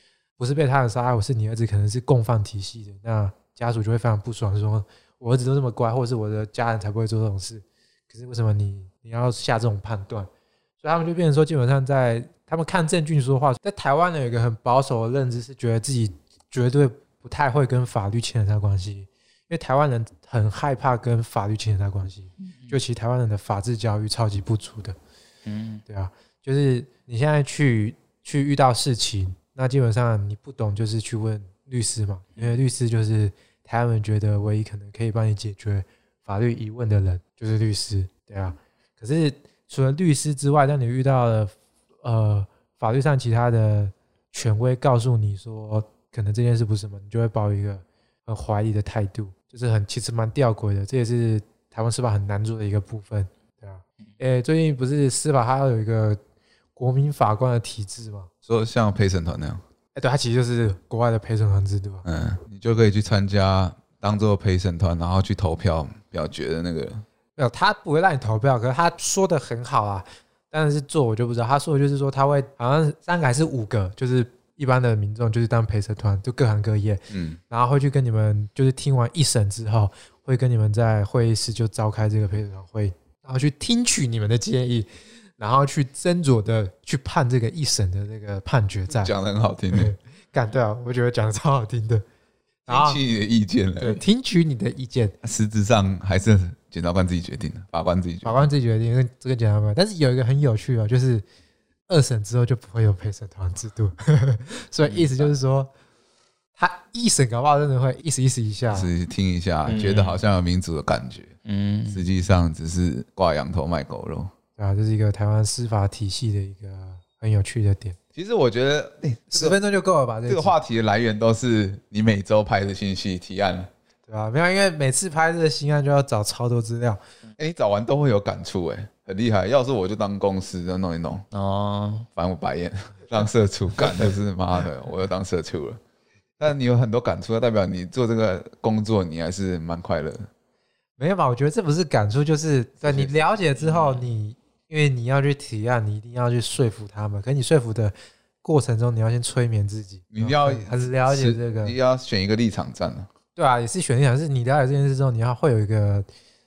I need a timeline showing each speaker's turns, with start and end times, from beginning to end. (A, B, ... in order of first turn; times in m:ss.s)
0:00.4-0:10.3 A
0:10.8-0:25.0 A
0:25.4-0:25.8 B
0:25.9-0:41.5 A
0:42.0-0:56.2 A
0:56.8-0:58.3 A
0:58.5-0:59.6 C
0:59.9-1:02.0 A
1:02.0-1:07.0 C
1:07.4-1:24.9 A
1:17.1-1:17.4 C
1:25.4-1:29.1 A
1:28.9-1:29.9 C
1:29.7-1:32.0 A
1:32.7-1:33.0 A
1:32.7-1:34.0 C
1:33.8-1:35.2 A
1:35.2-1:38.5 C
1:38.2-1:41.2 A
1:41.9-1:45.7 A
1:44.9-1:45.3 B
1:46.6-1:48.9 A
1:48.7-1:51.3 C
1:49.6-1:50.2 B
1:51.4-1:52.1 B
1:51.9-1:54.3 C
1:54.6-1:58.0 A
1:58.1-1:59.6 C
1:59.3-2:00.5 A
2:00.3-2:03.7 C
2:04.1-2:07.0 A
2:07.4-2:11.3 C
2:11.3-2:12.1 B
2:12.2-2:15.8 C
2:16.4-2:20.3 C
2:21.0-2:31.8 A
2:22.8-2:23.1 C
2:23.6-2:24.1 B
2:30.1-2:33.1 C
2:33.4-2:36.1 A